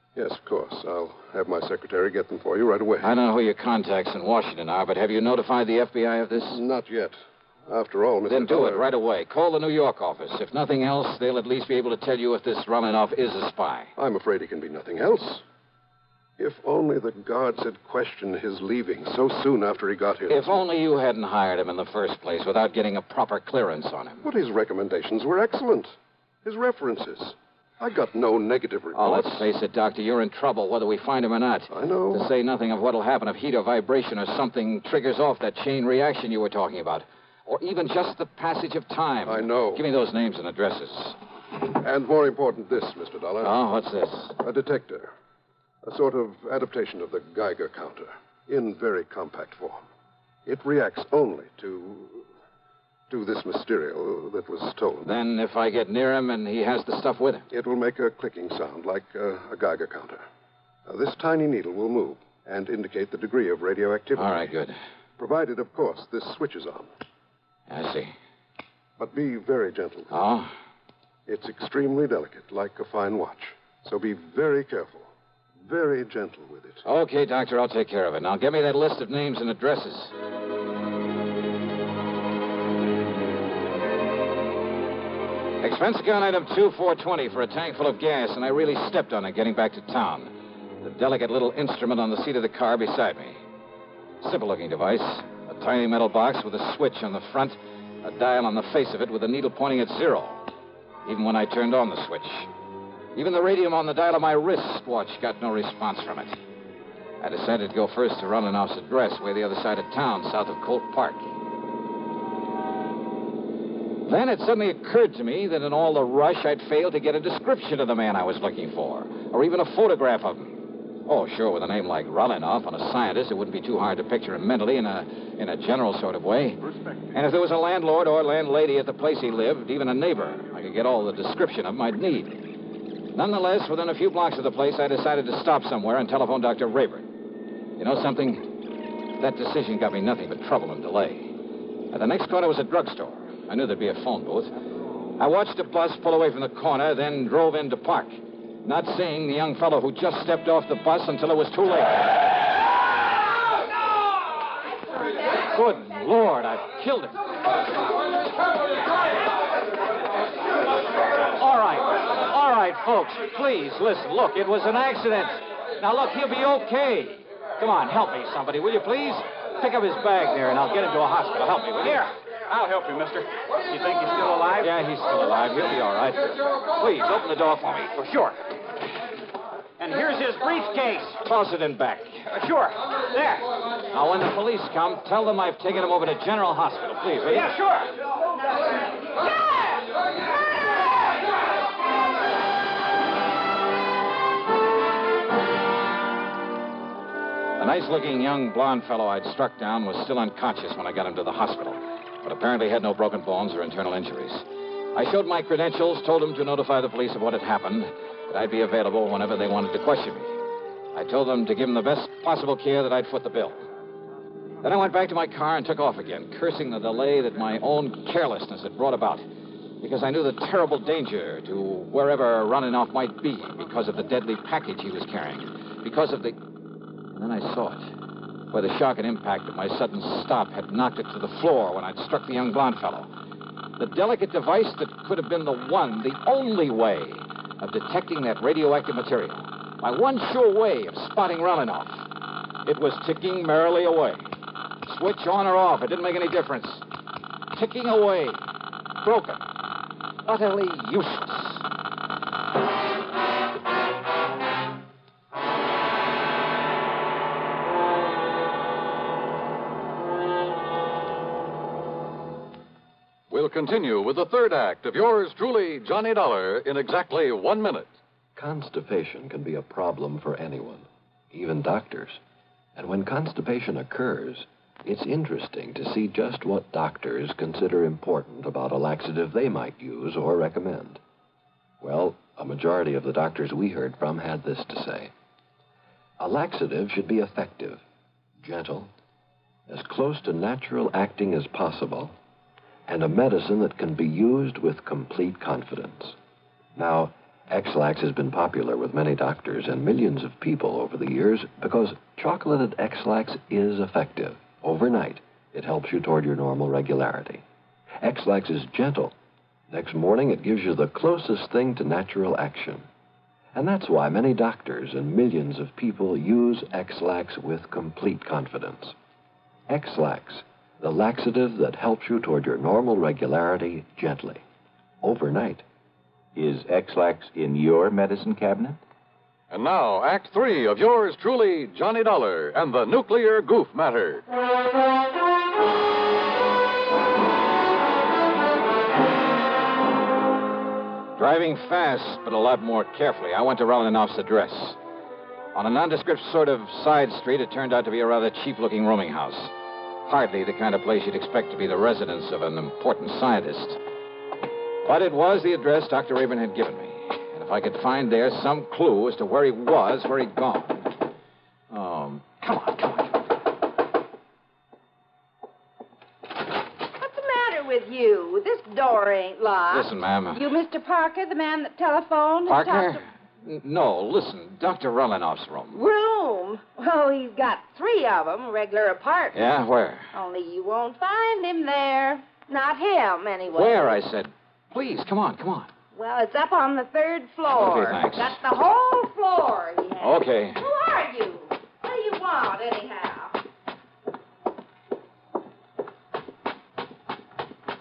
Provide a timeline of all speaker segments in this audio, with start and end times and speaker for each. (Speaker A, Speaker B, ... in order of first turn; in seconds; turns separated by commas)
Speaker A: 0.2-3.1, Speaker B: 3.0-6.6, Speaker A: 6.4-8.9, Speaker B: 8.3-13.9, Speaker A: 14.0-15.4, Speaker A: 16.4-20.6, Speaker B: 20.3-24.2, Speaker A: 24.2-25.9, Speaker A: 26.4-29.5, Speaker B: 28.9-41.2, Speaker A: 31.7-32.3, Speaker A: 39.3-39.8, Speaker A: 41.8-43.5, Speaker B: 43.4-44.4, Speaker A: 44.4-45.1, Speaker A: 45.9-49.8, Speaker A: 50.5-52.3, Speaker A: 53.1-55.1, Speaker B: 55.0-57.5, Speaker A: 57.5-60.2, Speaker A: 60.9-64.5, Speaker B: 64.2-64.8, Speaker A: 65.2-66.9, Speaker B: 67.7-68.1, Speaker A: 69.0-70.1, Speaker B: 70.1-70.5, Speaker A: 71.3-75.1, Speaker A: 75.6-76.8, Speaker B: 76.8-80.1, Speaker B: 85.6-93.4, Speaker B: 94.2-100.5, Speaker B: 101.0-102.5, Speaker B: 103.2-106.4, Speaker B: 107.2-111.3, Speaker B: 114.1-126.6, Speaker B: 127.1-132.4, Speaker B: 133.1-137.1, Speaker B: 137.8-138.5, Speaker B: 139.2-141.3, Speaker B: 141.9-144.5, Speaker B: 145.2-152.2, Speaker B: 155.4-157.3, Speaker B: 161.3-172.1, Speaker C: 171.9-174.7, Speaker B: 174.6-178.2, Speaker C: 178.0-178.3, Speaker C: 179.8-181.2, Speaker B: 181.1-182.7, Speaker C: 182.6-183.5, Speaker B: 183.9-187.6, Speaker C: 187.4-187.9, Speaker B: 197.6-210.3, Speaker B: 210.9-213.6, Speaker B: 214.6-219.2, Speaker B: 219.8-226.4, Speaker B: 227.1-227.9, Speaker B: 228.5-233.1, Speaker B: 233.8-242.1, Speaker B: 242.7-244.3, Speaker B: 244.9-246.8, Speaker B: 247.5-248.4, Speaker B: 249.0-249.5, Speaker B: 250.2-251.7, Speaker D: 263.3-267.9, Speaker E: 268.4-272.2, Speaker E: 272.8-281.0, Speaker E: 281.8-285.1, Speaker E: 286.2-287.8, Speaker E: 288.4-288.9, Speaker E: 289.7-292.1, Speaker E: 292.9-296.2, Speaker E: 296.8-307.4, Speaker E: 308.0-309.1, Speaker E: 309.7-312.9, Speaker E: 313.6-318.9, Speaker E: 319.7-324.4, Speaker E: 325.0-325.6, Speaker F: 326.4-328.8, Speaker D: 329.5-334.2, Speaker B: 341.2-344.8, Speaker B: 345.5-349.5, Speaker B: 350.1-353.8, Speaker B: 354.9-360.9, Speaker B: 361.7-363.3, Speaker G: 367.0-373.0, Speaker B: 369.7-370.4, Speaker B: 372.5-375.8, Speaker G: 375.7-379.4, Speaker B: 379.3-380.1, Speaker G: 380.1-384.0, Speaker B: 383.5-385.7, Speaker G: 385.9-393.4, Speaker B: 387.5-388.4, Speaker B: 390.0-390.6